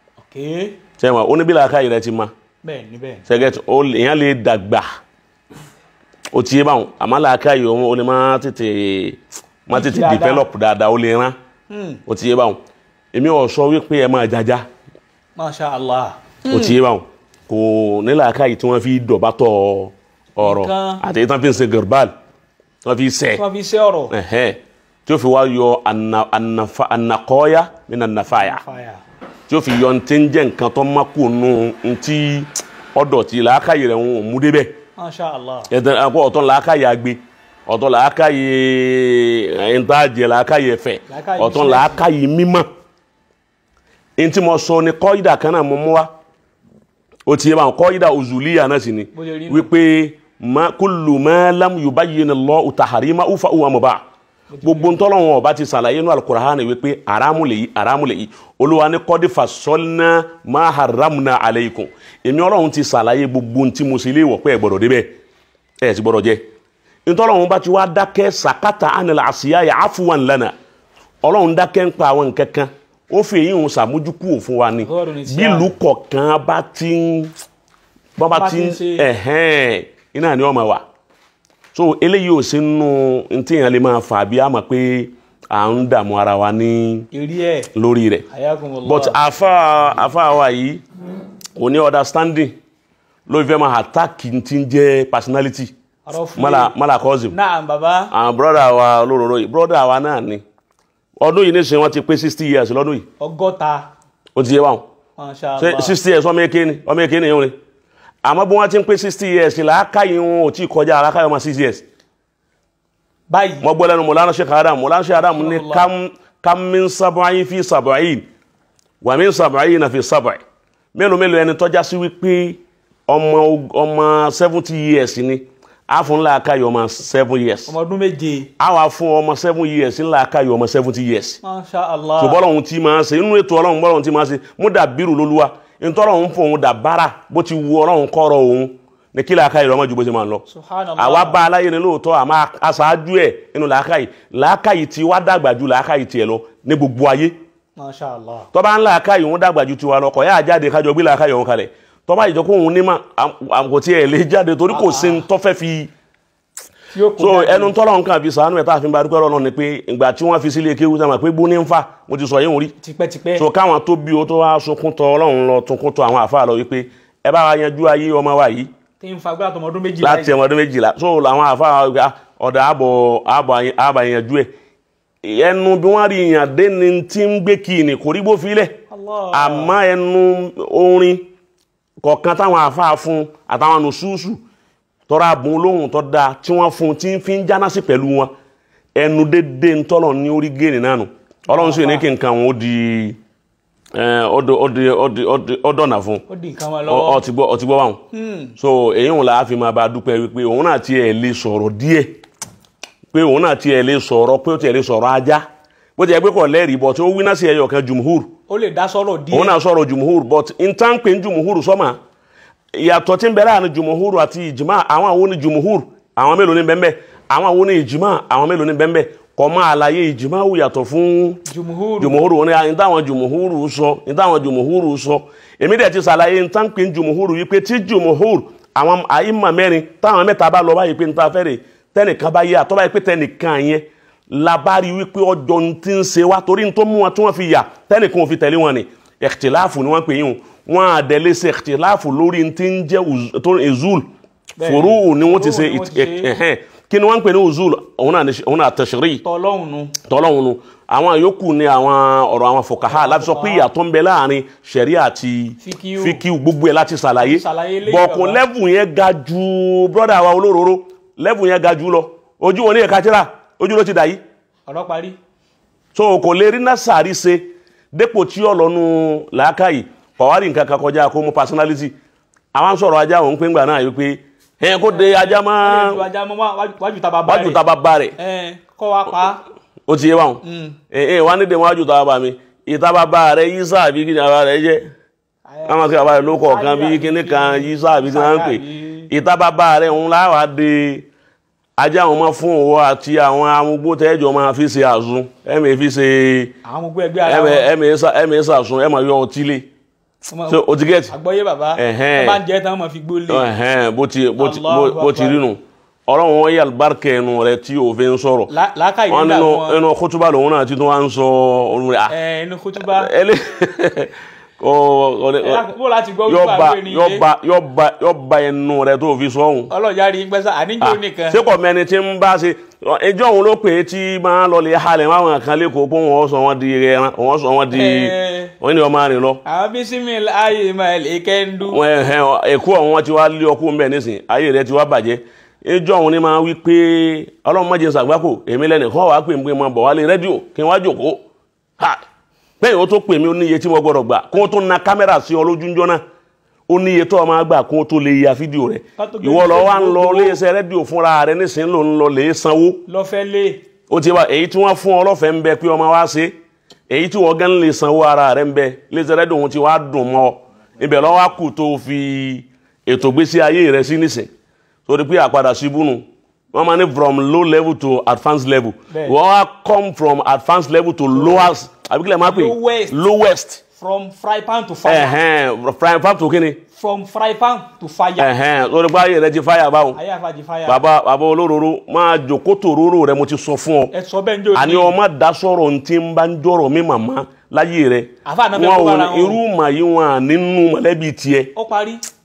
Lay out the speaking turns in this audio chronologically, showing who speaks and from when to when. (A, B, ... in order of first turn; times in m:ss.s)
0:00.2-0:00.8 A
0:01.0-0:02.3 B
0:02.6-0:03.3 A
0:03.3-0:04.8 B
0:06.3-0:11.4 B
0:09.7-0:10.4 A
0:11.7-0:12.0 A
0:12.0-0:12.6 B
0:13.1-0:14.7 B
0:15.4-0:16.7 A
0:16.5-0:22.1 B
0:20.4-0:21.0 A
0:22.8-0:23.4 B
0:23.3-0:24.1 A
0:24.1-0:28.6 B
0:28.3-0:29.0 A
0:29.5-0:34.7 B
0:35.0-0:35.7 A
0:35.7-0:42.7 B
0:41.1-0:42.0 A
0:44.2-0:46.1 B
0:47.3-0:54.0 B
0:49.1-0:49.7 A
0:54.5-0:54.9 A
0:54.6-1:05.1 B
1:05.8-1:06.4 B
1:07.0-1:10.5 B
1:11.2-1:17.3 B
1:14.8-1:15.7 A
1:18.2-1:20.8 B
1:18.3-1:19.0 A
1:21.7-1:27.1 B
1:27.1-1:27.7 A
1:27.7-1:28.2 B
1:28.3-1:29.2 A
1:28.8-1:30.8 B
1:31.6-1:32.5 B
1:33.3-1:35.7 B
1:36.0-1:36.7 A
1:36.4-1:37.3 B
1:37.3-1:38.1 A
1:38.1-1:40.4 B
1:41.2-1:43.0 B
1:43.2-1:43.9 A
1:44.4-1:44.8 B
1:45.2-1:46.0 A
1:45.6-1:47.5 B
1:48.2-1:51.8 B
1:53.3-1:53.6 A
1:53.6-1:58.2 B
1:55.2-1:55.9 A
1:59.0-2:00.4 B
2:00.9-2:07.7 B
2:07.7-2:08.5 A
2:08.6-2:11.4 B
2:11.4-2:12.4 A
2:12.2-2:20.4 B
2:20.5-2:21.4 A
2:21.0-2:27.3 B
2:27.8-2:28.5 A
2:28.5-2:35.9 B
2:34.7-2:35.2 A
2:36.9-2:37.7 A
2:37.2-2:42.7 B
2:42.8-2:43.4 A
2:43.4-2:48.7 B
2:49.0-2:50.3 A
2:50.0-2:54.5 B
2:55.2-2:58.8 B
2:58.9-2:59.8 A
2:59.3-3:01.3 B
3:02.0-3:04.4 B
3:05.1-3:08.3 B
3:09.0-3:13.2 B
3:11.5-3:12.0 A
3:13.9-3:16.2 B
3:16.3-3:17.2 A
3:16.9-3:18.0 B
3:18.1-3:18.5 A
3:18.6-3:22.2 B
3:23.1-3:25.4 B
3:26.0-3:28.3 B
3:28.5-3:29.6 A
3:29.3-3:32.0 B
3:32.7-3:41.4 B
3:41.5-3:42.2 A
3:42.0-4:04.0 B
4:04.6-4:06.3 A
4:04.6-4:09.2 B
4:09.2-4:09.9 A
4:10.1-4:24.2 B
4:12.8-4:13.7 A
4:15.6-4:16.2 A
4:17.2-4:18.4 A
4:24.7-4:25.2 A
4:25.9-4:31.9 B
4:32.5-4:36.1 B
4:34.8-4:37.6 A
4:37.2-4:38.2 B
4:38.2-4:39.4 A
4:39.9-4:44.8 B
4:40.4-4:40.8 A
4:45.4-4:49.1 A
4:45.6-4:51.0 B
4:51.8-4:56.5 B
4:56.6-4:57.7 A
4:57.2-4:59.7 B
5:00.3-5:03.4 A
5:00.5-5:01.1 B
5:01.8-5:02.4 B
5:03.3-5:08.5 B
5:04.4-5:05.4 A
5:08.5-5:09.8 A
5:09.1-5:12.1 B
5:12.1-5:13.1 A
5:12.8-5:15.6 B
5:15.4-5:17.2 A
5:16.3-5:19.7 B
5:19.7-5:21.4 A
5:20.8-5:29.4 B
5:27.7-5:28.5 A
5:29.4-5:31.8 A
5:31.7-5:41.2 B
5:42.6-5:46.0 B
5:46.7-5:52.8 B
5:49.0-5:50.4 A
5:52.9-5:53.6 A
5:53.9-5:56.3 B
5:56.9-6:04.3 B
6:04.9-6:13.6 B
6:08.9-6:09.2 A
6:11.1-6:11.5 A
6:12.2-6:13.0 A
6:13.8-6:15.2 A
6:14.8-6:16.6 B
6:16.7-6:18.3 A
6:18.2-6:20.0 B
6:19.9-6:20.8 A
6:20.7-6:23.9 B
6:23.9-6:24.9 A
6:24.5-6:31.5 B
6:28.2-6:29.4 A
6:31.5-6:32.0 A